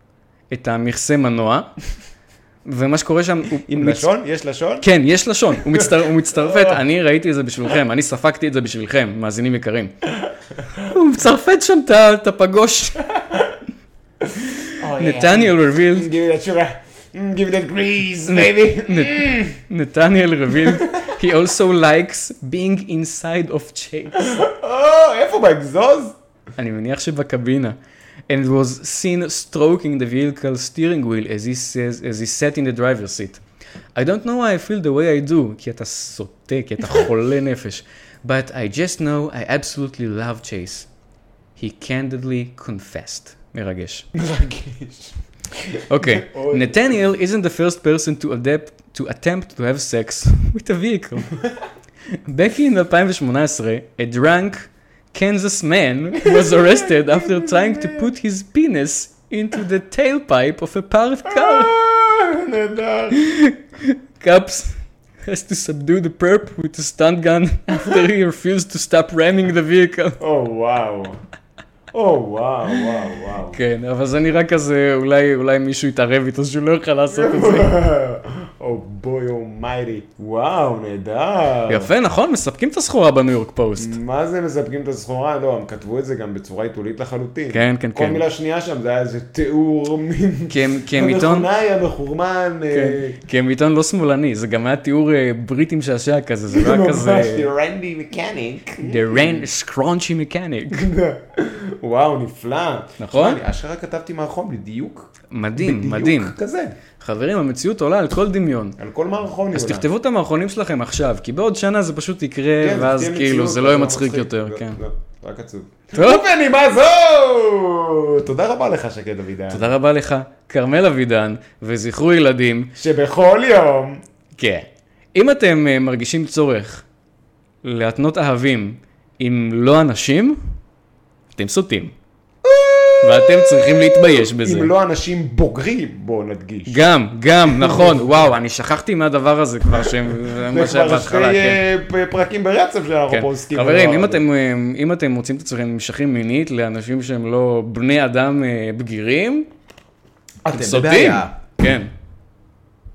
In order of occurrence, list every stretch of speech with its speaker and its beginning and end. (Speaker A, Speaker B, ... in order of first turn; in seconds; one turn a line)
Speaker A: 0.5-1.7
Speaker A: 2.6-4.1
Speaker B: 3.7-4.9
Speaker A: 4.8-9.9
Speaker B: 6.5-6.7
Speaker A: 10.8-13.0
Speaker B: 14.3-19.6
Speaker A: 14.8-16.1
Speaker A: 18.3-24.4
Speaker B: 24.2-26.1
Speaker A: 26.6-27.8
Speaker A: 28.3-33.4
Speaker A: 33.9-40.9
Speaker A: 41.6-44.1
Speaker B: 44.1-46.9
Speaker A: 45.9-51.4
Speaker A: 52.1-61.7
Speaker B: 56.2-58.1
Speaker B: 61.3-63.2
Speaker A: 63.1-70.2
Speaker B: 70.2-71.2
Speaker B: 71.9-73.6
Speaker A: 73.5-77.8
Speaker B: 77.1-81.9
Speaker A: 81.7-83.9
Speaker B: 83.8-93.2
Speaker A: 87.5-88.2
Speaker A: 90.5-91.5
Speaker A: 92.7-97.5
Speaker B: 96.5-99.4
Speaker A: 98.8-100.9
Speaker B: 100.7-106.7
Speaker A: 103.0-103.4
Speaker A: 105.3-106.3
Speaker A: 107.0-108.8
Speaker B: 108.8-109.9
Speaker A: 109.5-114.8
Speaker B: 112.6-119.7
Speaker A: 115.9-116.2
Speaker A: 119.5-122.7
Speaker B: 122.8-124.0
Speaker A: 124.4-126.8
Speaker A: 127.6-130.4
Speaker A: 131.3-131.9
Speaker B: 132.4-136.8
Speaker A: 133.0-134.7
Speaker A: 136.7-141.6
Speaker B: 137.5-138.0
Speaker B: 139.8-144.2
Speaker A: 143.1-149.5
Speaker B: 150.4-151.4
Speaker A: 150.5-151.9